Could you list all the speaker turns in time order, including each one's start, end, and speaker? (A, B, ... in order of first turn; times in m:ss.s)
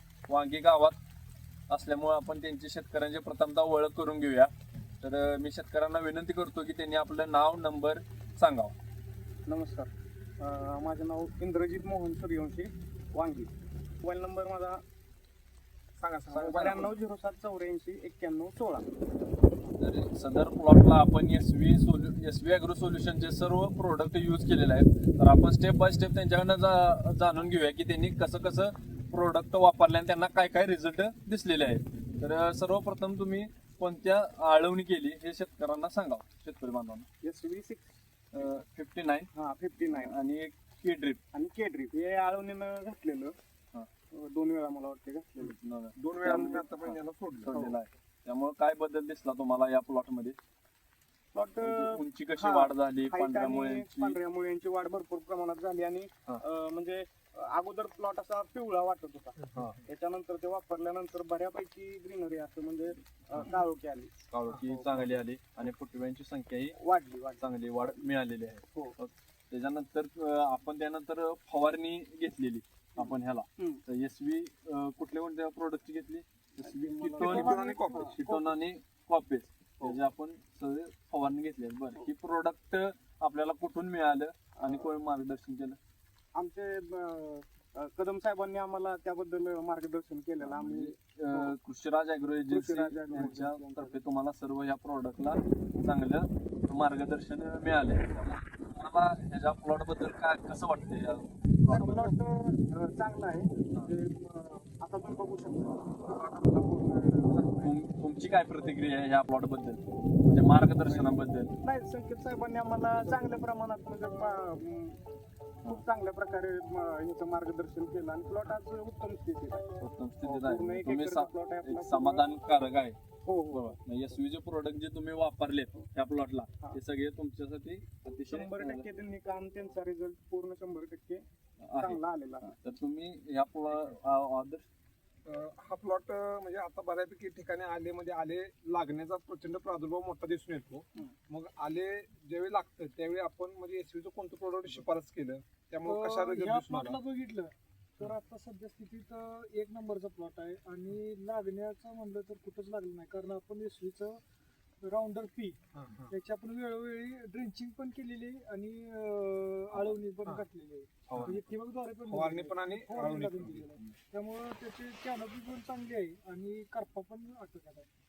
0:00.3-0:01.0 A
0:01.7-0:08.8 A
0:09.5-0:14.8 B
0:16.0-0:17.0 C
0:16.3-0:18.9 B
0:19.8-0:37.1 A
0:37.2-0:38.5 B
0:38.3-0:39.3 A
0:39.4-0:40.2 B
0:39.8-0:41.2 A
0:41.3-0:43.4 B
0:44.1-0:45.6 B
0:45.4-0:50.4 A
0:46.0-0:47.6 C
0:46.3-0:46.7 B
0:47.5-0:47.8 B
0:51.3-1:04.1 B
0:51.6-0:54.2 A
0:59.4-0:59.9 C
1:03.3-1:03.6 A
1:04.3-1:06.8 A
1:04.6-1:05.2 B
1:06.8-1:07.5 B
1:07.4-1:25.8 A
1:13.0-1:13.8 B
1:16.6-1:18.2 B
1:17.2-1:18.2 D
1:17.2-1:18.2 C
1:24.6-1:24.9 B
1:26.4-1:31.6 B
1:30.4-1:41.3 A
1:32.5-1:34.0 B
1:41.7-1:42.2 D
1:41.7-1:47.7 B
1:47.6-1:51.5 A
1:50.8-1:55.0 B
1:55.6-1:59.7 B
1:59.8-2:08.9 A
2:00.2-2:02.3 B
2:03.2-2:03.8 B
2:08.3-2:11.2 B
2:11.6-2:14.6 A
2:11.8-2:12.6 B
2:15.2-2:27.0 C
2:25.8-2:34.2 D
2:34.8-2:47.9 D
2:35.7-2:36.1 C
2:41.1-2:41.4 C
2:42.1-2:43.8 C